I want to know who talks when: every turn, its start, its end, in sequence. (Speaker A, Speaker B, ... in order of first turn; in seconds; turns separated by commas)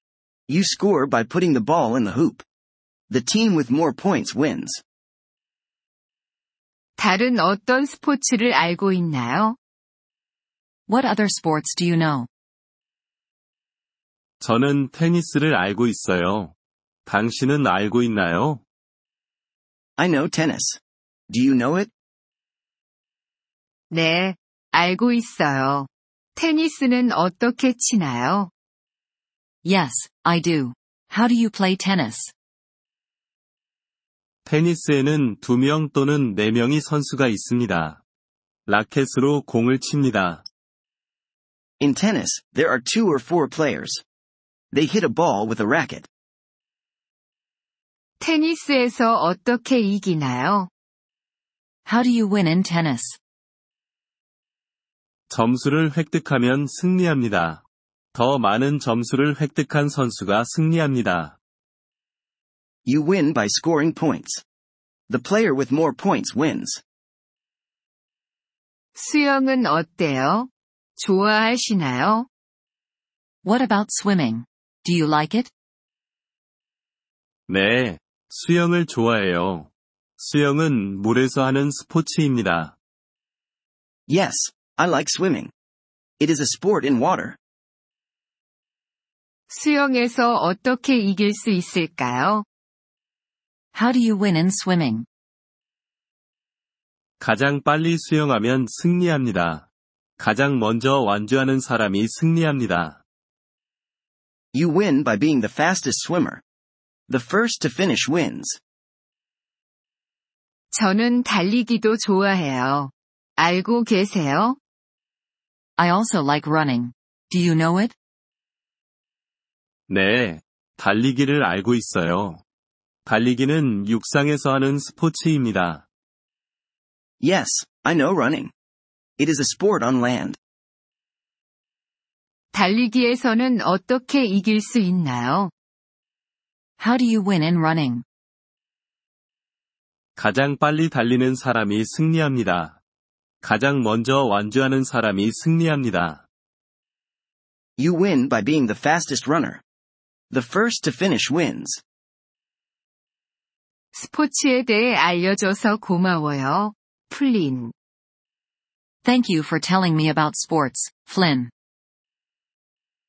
Speaker A: 0.5-2.4, Speaker A: 3.1-4.8, Speaker B: 7.0-9.6, Speaker C: 10.9-12.3, Speaker D: 14.4-16.5, Speaker D: 17.1-18.6, Speaker A: 20.0-21.9, Speaker B: 23.9-28.5, Speaker C: 29.6-32.3, Speaker D: 34.5-38.0, Speaker D: 38.7-40.4, Speaker A: 41.8-44.0, Speaker A: 44.7-46.1, Speaker B: 48.2-50.7, Speaker C: 51.9-53.2, Speaker D: 55.3-57.6, Speaker D: 58.1-61.4, Speaker A: 62.9-64.4, Speaker A: 65.1-66.8, Speaker B: 69.0-72.3, Speaker C: 73.4-75.5, Speaker D: 77.5-82.8, Speaker A: 84.1-85.5, Speaker A: 86.2-87.4, Speaker B: 89.5-92.5, Speaker C: 93.7-95.1, Speaker D: 97.2-99.7, Speaker D: 100.2-103.0, Speaker A: 104.5-106.4, Speaker A: 107.1-108.6, Speaker B: 110.7-114.6, Speaker C: 115.8-117.9, Speaker D: 119.9-122.4, Speaker D: 123.0-125.8, Speaker A: 127.2-128.5, Speaker A: 129.2-130.4, Speaker B: 132.5-135.5, Speaker C: 136.8-138.0, Speaker D: 140.2-142.8, Speaker D: 143.4-146.2, Speaker A: 147.8-149.6, Speaker A: 150.3-151.8, Speaker B: 153.9-157.7, Speaker C: 159.0-161.5